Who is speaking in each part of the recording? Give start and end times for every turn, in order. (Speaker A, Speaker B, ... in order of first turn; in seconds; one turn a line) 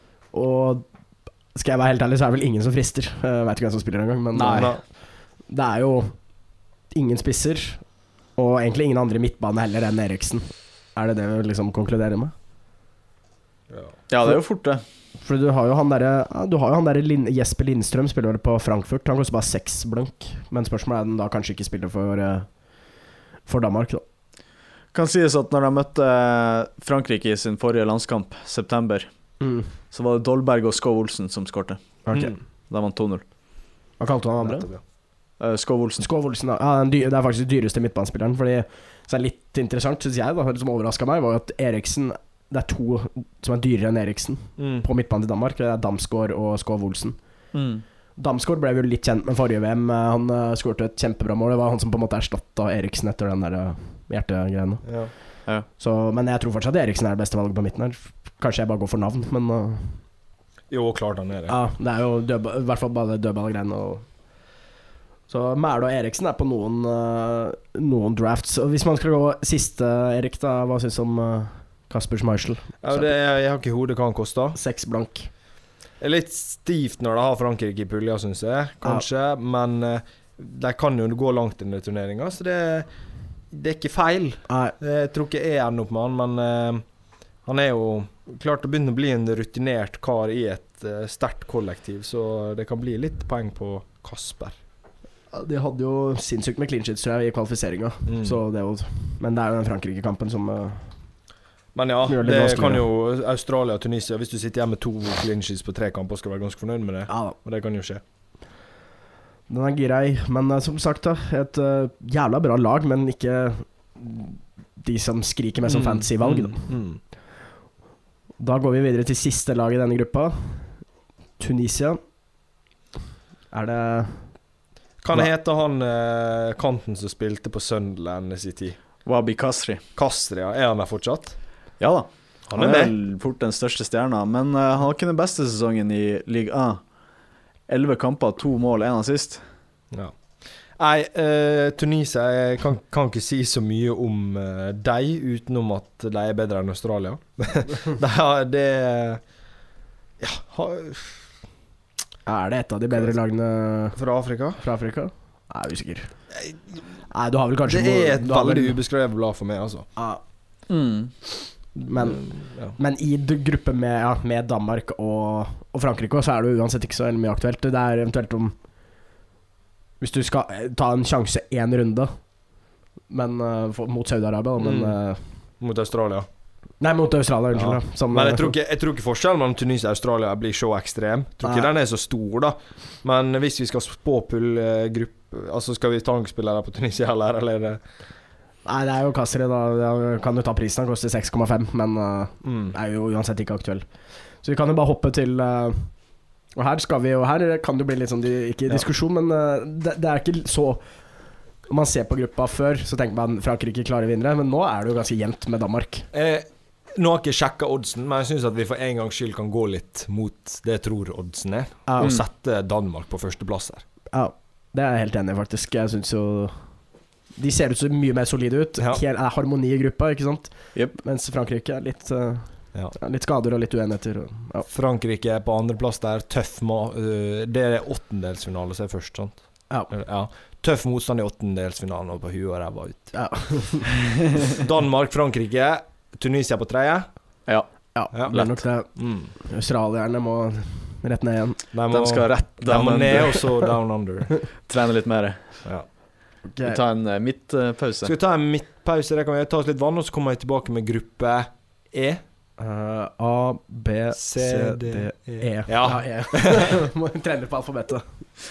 Speaker A: 0.3-0.9
Speaker A: 1.5-12.3
Speaker B: 4.3-4.7
Speaker C: 4.5-4.8
Speaker C: 13.7-13.9
Speaker B: 14.1-14.8
Speaker A: 15.2-24.0
Speaker B: 24.9-33.3
Speaker A: 29.4-29.7
Speaker A: 32.0-32.4
Speaker A: 34.0-34.7
Speaker C: 34.4-34.8
Speaker B: 35.4-36.0
Speaker A: 36.0-47.5
Speaker C: 44.6-44.9
Speaker B: 47.5-47.8
Speaker A: 48.1-60.0
Speaker C: 54.8-55.1
Speaker C: 60.7-61.6
Speaker A: 61.5-64.1
Speaker A: 65.3-73.1
Speaker C: 72.8-74.6
Speaker A: 74.5-75.3
Speaker C: 76.0-82.9
Speaker C: 83.5-86.8
Speaker A: 84.5-84.8
Speaker C: 87.4-94.5
Speaker A: 95.3-101.0
Speaker C: 98.0-98.4
Speaker C: 101.7-108.0
Speaker A: 102.1-102.8
Speaker A: 107.1-107.3
Speaker A: 109.5-116.7
Speaker C: 115.7-117.0
Speaker A: 118.4-120.8
Speaker A: 121.4-122.0
Speaker A: 123.5-124.4
Speaker C: 125.0-128.8
Speaker B: 129.0-129.8
Speaker C: 129.9-131.4
Speaker B: 131.8-136.9
Speaker C: 132.5-132.9
Speaker B: 137.7-139.4
Speaker C: 139.9-149.2
Speaker C: 150.2-151.3
Speaker A: 152.2-154.0
Speaker C: 153.9-154.6
Speaker A: 154.6-156.2
Speaker A: 157.1-158.8
Speaker C: 157.7-159.9
Speaker A: 159.9-160.2
Speaker B: 160.7-161.1
Speaker A: 161.7-168.6
Speaker C: 162.0-162.8
Speaker A: 170.0-172.4
Speaker A: 173.1-175.4
Speaker C: 175.6-176.3
Speaker A: 176.8-178.5
Speaker C: 177.5-187.8
Speaker A: 181.4-181.7
Speaker A: 188.6-206.1
Speaker C: 192.4-192.7
Speaker C: 206.1-213.8
Speaker A: 214.1-224.7
Speaker C: 224.7-233.2
Speaker A: 233.1-233.9
Speaker C: 234.4-237.1
Speaker B: 237.4-238.7
Speaker A: 237.9-241.7
Speaker C: 238.9-239.3
Speaker C: 241.7-244.3
Speaker B: 241.9-243.7
Speaker B: 244.6-245.7
Speaker A: 246.5-246.8
Speaker B: 246.6-248.1
Speaker C: 248.0-252.2
Speaker A: 252.6-258.3
Speaker C: 254.1-256.6